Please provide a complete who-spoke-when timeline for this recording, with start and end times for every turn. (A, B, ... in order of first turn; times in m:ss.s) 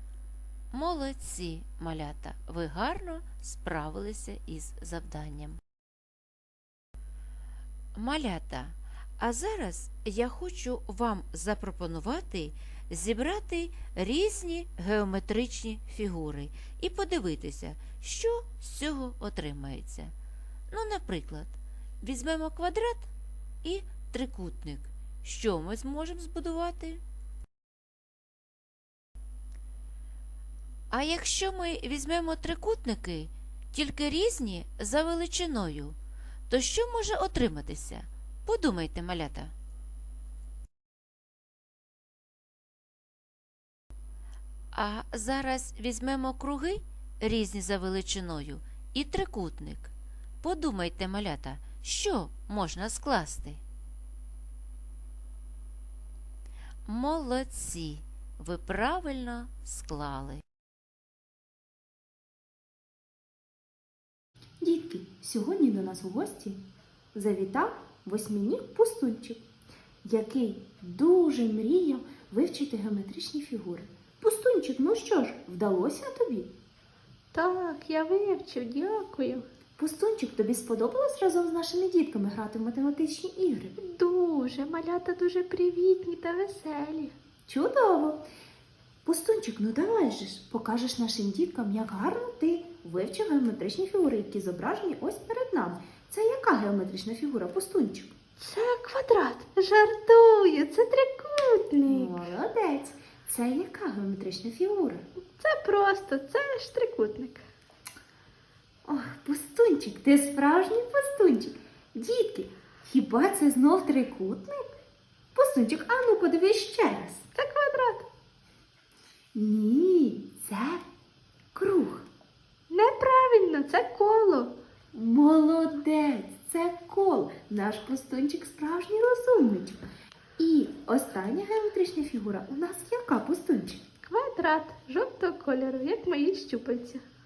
0:00.7-0:05.6 A
0:07.9-0:20.1 A
0:20.7-0:23.1 A
0:23.6-0:27.0 A
0:30.9-0:36.0 A
0:36.5-0:39.5 A
0:44.7-0:53.6 A
0:56.8-1:00.4 A
1:04.6-1:06.6 B
1:07.1-1:09.4 B
1:10.0-1:16.5 B
1:17.3-1:19.5 C
1:19.8-1:23.8 B
1:23.8-1:27.1 C
1:27.5-1:28.2 B
1:29.0-1:38.1 B
1:38.4-1:42.2 C
1:41.8-1:45.0 B
1:45.4-1:47.4 C
1:48.8-1:54.7 B
1:55.3-1:57.3 B
1:57.3-1:58.0 C
1:59.3-2:00.8 B
2:01.5-2:02.1 B
2:02.7-2:04.6 C
2:04.9-2:09.8 B
2:10.4-2:13.8 B
2:14.0-2:17.0 C